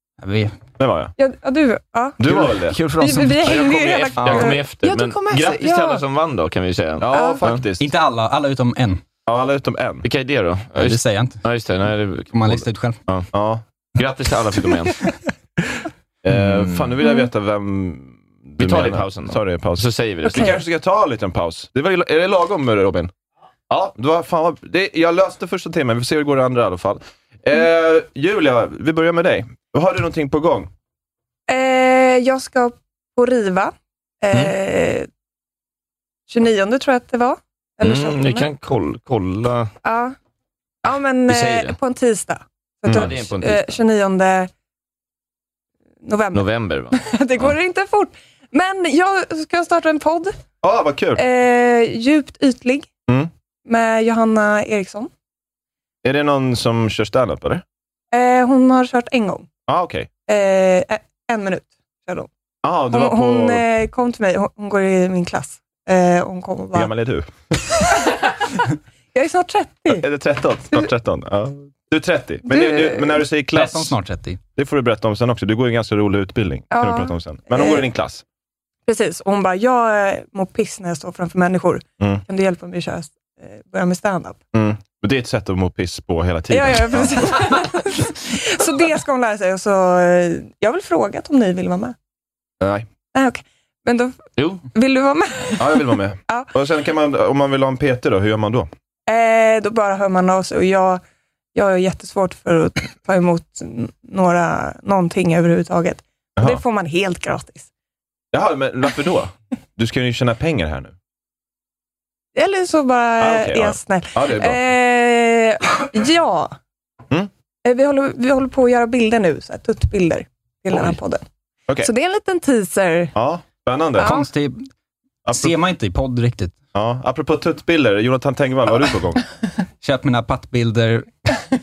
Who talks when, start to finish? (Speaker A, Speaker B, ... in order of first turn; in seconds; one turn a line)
Speaker A: 0.2-0.5
Speaker B: 0.8-1.1
Speaker C: 1.2-2.2
Speaker B: 2.2-2.8
Speaker D: 2.3-3.5
Speaker C: 2.9-6.0
Speaker E: 3.4-7.6
Speaker D: 4.2-4.5
Speaker B: 7.0-7.9
Speaker C: 7.1-7.4
Speaker A: 7.8-9.0
Speaker B: 9.2-10.1
Speaker E: 10.0-13.3
Speaker A: 10.8-11.4
Speaker A: 12.3-13.0
Speaker B: 13.3-13.6
Speaker E: 14.0-15.0
Speaker B: 16.2-23.1
Speaker D: 16.3-16.9
Speaker E: 18.6-20.6
Speaker B: 23.7-30.7
Speaker C: 31.5-35.1
Speaker C: 36.3-38.5
Speaker E: 37.8-39.7
Speaker C: 39.8-40.1
Speaker C: 40.8-44.5
Speaker E: 41.3-41.8
Speaker B: 42.9-43.1
Speaker E: 42.9-43.8
Speaker C: 46.0-50.4
Speaker E: 46.3-47.5
Speaker B: 50.6-51.2
Speaker C: 51.1-52.9
Speaker C: 53.6-55.1
Speaker B: 56.0-57.6
Speaker C: 58.1-59.5
Speaker B: 59.7-60.1
Speaker C: 60.3-62.3
Speaker B: 62.6-63.6
Speaker C: 62.9-66.9
Speaker B: 66.7-67.6
Speaker C: 69.1-70.0
Speaker B: 69.9-73.9
Speaker C: 72.5-73.3
Speaker A: 73.5-74.4
Speaker B: 74.5-78.2
Speaker C: 76.7-77.9
Speaker C: 78.9-84.4
Speaker B: 84.5-87.5
Speaker C: 86.5-91.9
Speaker B: 92.6-92.9
Speaker C: 93.1-96.5
Speaker E: 94.4-94.6
Speaker B: 95.6-98.7
Speaker C: 99.1-101.0
Speaker C: 101.5-107.7
Speaker B: 108.3-110.9
Speaker C: 112.3-116.5
Speaker B: 113.2-114.6
Speaker C: 117.6-121.2
Speaker B: 120.7-121.0
Speaker C: 121.8-123.1
Speaker B: 123.1-124.2
Speaker C: 124.0-124.3
Speaker A: 124.0-124.7
Speaker B: 125.2-125.5
Speaker A: 125.3-126.6
Speaker B: 126.7-129.2
Speaker A: 129.8-131.1